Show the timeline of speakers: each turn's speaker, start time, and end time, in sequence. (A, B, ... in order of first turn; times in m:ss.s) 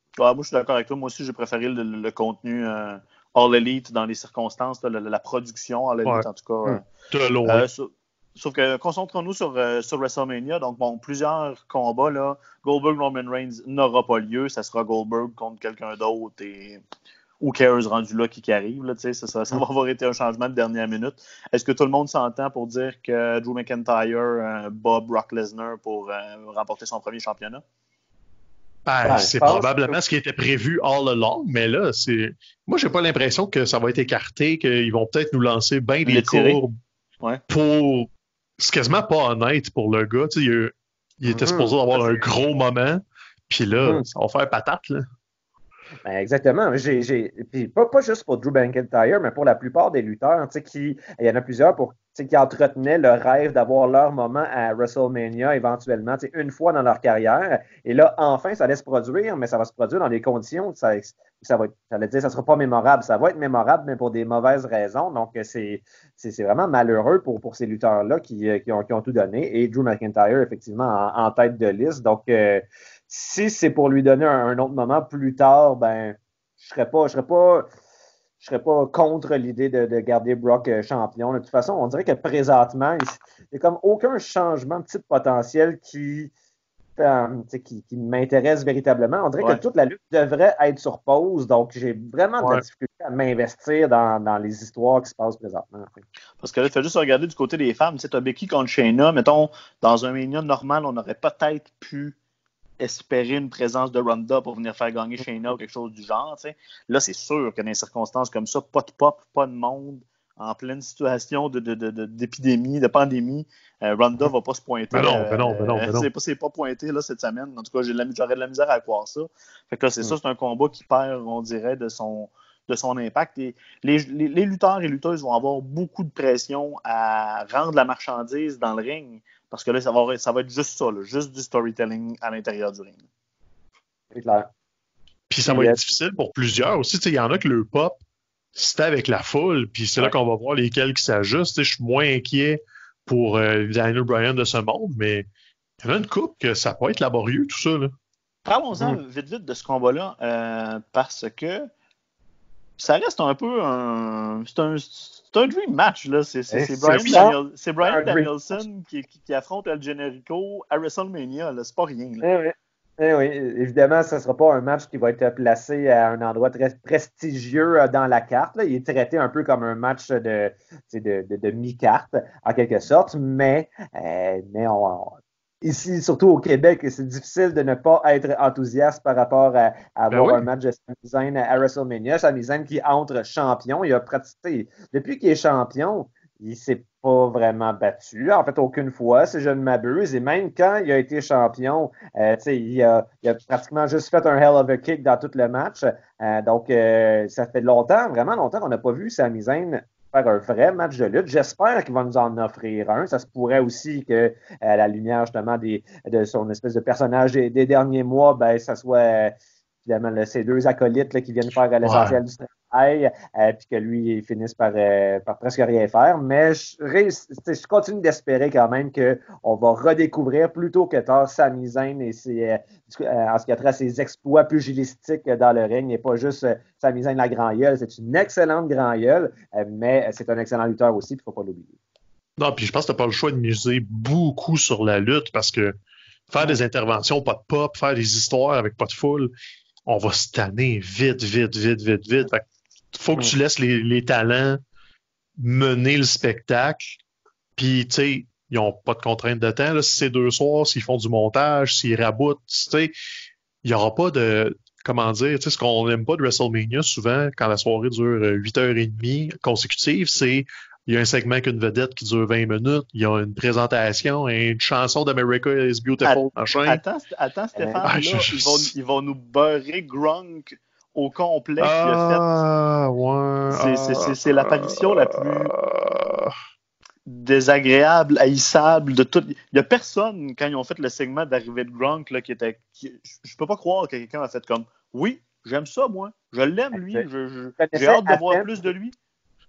0:00.2-0:06.8 A
0:07.1-0:07.6 B
0:07.4-0:16.8 A
0:17.4-0:27.6 A
0:28.8-0:36.8 B
0:29.0-0:30.0 C
0:36.0-0:36.6 A
0:37.5-0:45.0 B
0:41.3-0:42.1 C
0:46.0-1:17.6 C
1:18.4-1:26.3 C
1:27.0-1:36.0 C
1:36.4-1:42.1 A
1:42.8-2:13.0 A
1:54.9-1:56.1 B
2:14.1-2:14.5 C
2:15.3-2:18.0 B
2:15.5-2:15.8 C
2:18.6-2:25.3 B
2:25.8-2:27.9 B
2:28.4-2:31.7 A
2:32.8-2:42.2 A
2:36.5-2:38.6 C
2:36.8-2:37.2 B
2:42.2-3:51.8 C
3:00.1-3:00.4 B
3:31.8-3:32.2 B
3:52.4-3:55.8 B
3:56.3-3:59.3 B
3:59.9-4:04.6 B
4:05.4-4:07.0 B
4:07.6-4:12.9 B
4:13.6-4:26.8 B
4:26.0-4:32.2 A
4:27.5-4:27.9 C
4:27.8-4:28.7 B
4:31.6-4:36.3 B
4:33.5-4:35.5 A
4:37.1-4:48.9 A
4:46.7-4:47.0 C
4:47.6-4:48.7 C